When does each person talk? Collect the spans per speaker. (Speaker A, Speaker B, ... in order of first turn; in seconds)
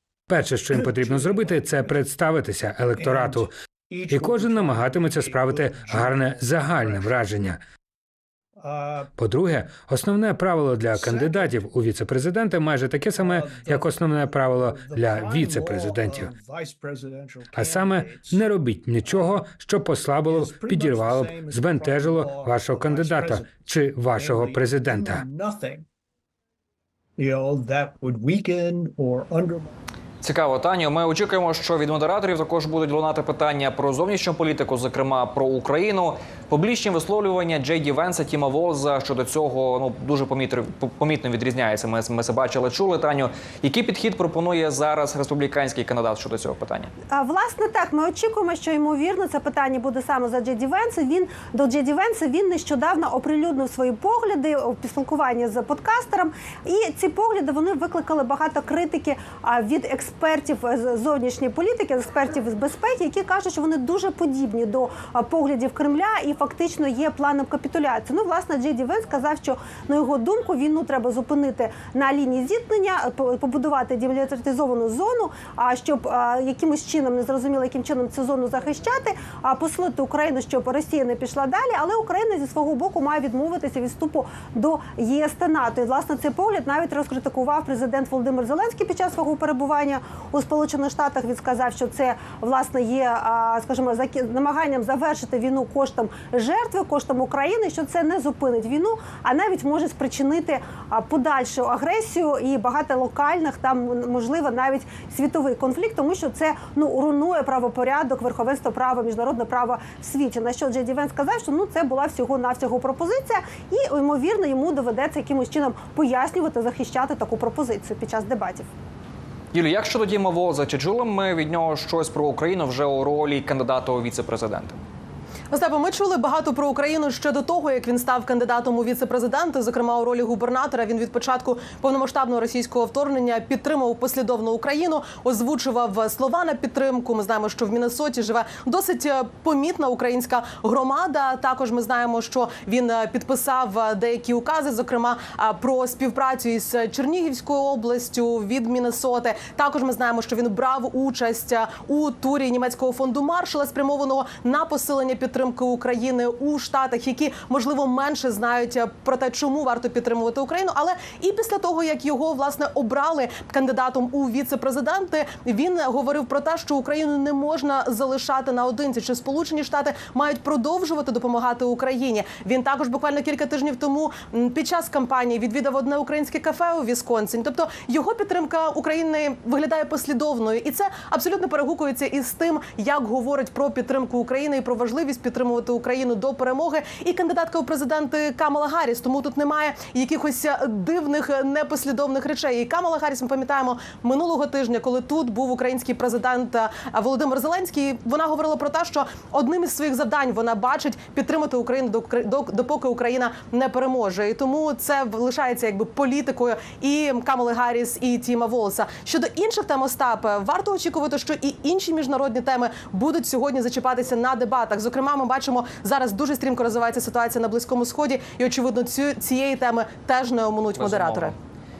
Speaker A: 0.3-3.5, 4.1-7.6, 9.2-16.3, 17.5-25.2
Speaker B: 0.7-2.1, 2.9-7.5, 8.6-9.1, 10.9-11.7, 13.1-18.5, 19.0-19.5, 20.2-25.9, 27.2-29.7
Speaker C: 30.2-46.9, 119.5-124.8, 220.8-221.3
Speaker D: 47.1-118.7
Speaker E: 125.5-221.3